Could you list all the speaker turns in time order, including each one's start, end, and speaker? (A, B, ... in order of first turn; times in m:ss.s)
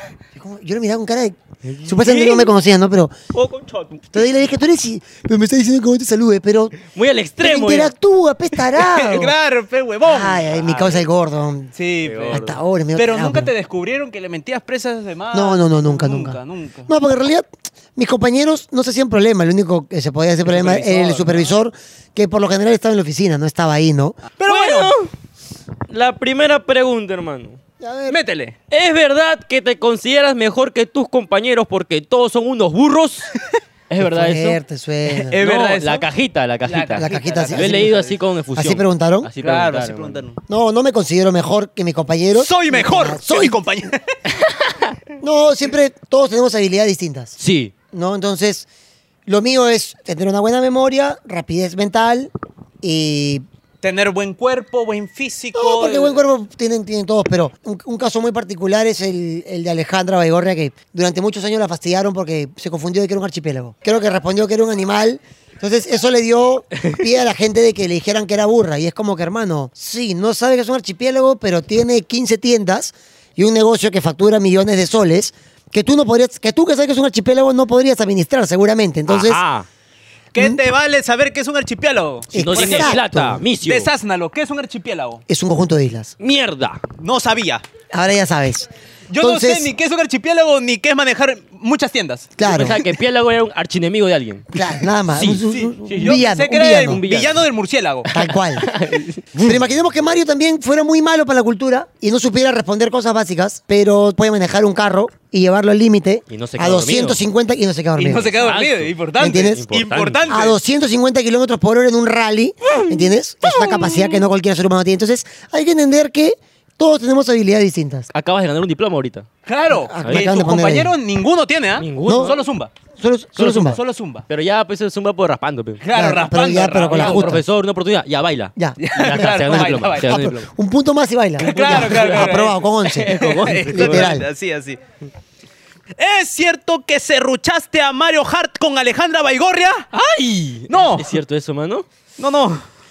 0:00.4-0:03.1 A
0:01.6-0:02.5 B
0:03.3-0:04.1 B
0:04.1-0:06.8 A
0:06.9-0:07.9 B
0:07.4-0:09.3 A
0:08.8-0:10.8 C
0:10.0-0:11.7 A
0:10.6-0:11.0 B
0:11.8-0:16.9 C
0:12.0-0:12.6 B
0:12.3-0:13.5 A
0:15.3-0:24.2 A
0:20.5-0:21.5 C
0:24.4-0:24.9 C
0:24.5-0:25.1 B
0:25.9-0:27.6 B
0:27.8-0:28.2 A
0:28.1-0:28.6 C
0:28.7-0:33.3 B
0:33.9-0:34.6 B
0:34.0-0:35.4 A
0:35.1-0:36.1 C
0:35.4-0:40.2 B
0:36.6-0:38.2 C
0:37.0-0:38.0 A
0:38.6-0:39.3 A
0:39.4-0:40.4 C
0:40.5-0:43.6 A
0:42.4-0:44.2 C
0:44.4-0:45.0 B
0:45.2-0:47.4 A
0:47.4-0:47.7 B
0:47.9-0:48.7 A
0:49.3-0:52.3 A
0:52.8-0:53.4 A
0:53.8-0:56.2 C
0:55.6-1:19.4 A
1:19.1-1:19.7 B
1:20.3-1:23.0 C
1:22.3-1:23.4 A
1:22.3-1:23.9 B
1:23.6-1:25.2 C
1:25.3-1:26.1 A
1:26.2-1:26.8 B
1:27.0-1:27.6 C
1:27.9-1:29.7 A
1:29.1-1:32.4 C
1:32.4-1:32.8 A
1:32.4-1:34.5 B
1:34.5-1:37.0 A
1:35.2-1:36.2 B
1:35.5-1:38.1 C
1:36.9-1:37.4 B
1:38.1-1:38.8 A
1:38.1-1:39.5 B
1:39.4-1:48.4 A
1:46.3-1:47.2 B
1:48.0-1:50.6 C
1:48.2-1:50.4 B
1:49.2-1:49.7 A
1:50.3-1:58.1 A
1:58.1-1:59.3 B
1:59.5-2:02.7 C
1:59.7-2:01.0 A
2:00.0-2:00.3 B
2:01.8-2:02.4 B
2:02.0-2:02.4 A
2:03.0-2:03.8 A
2:03.4-2:04.3 C
2:04.3-2:05.8 B
2:05.8-2:07.4 C
2:05.9-2:07.4 A
2:06.9-2:10.5 B
2:08.6-2:14.3 A
2:08.8-2:10.2 C
2:11.4-2:14.1 B
2:11.4-2:14.8 C
2:16.0-2:19.9 C
2:19.9-2:21.9 B
2:20.7-2:21.1 C
2:22.2-2:22.6 C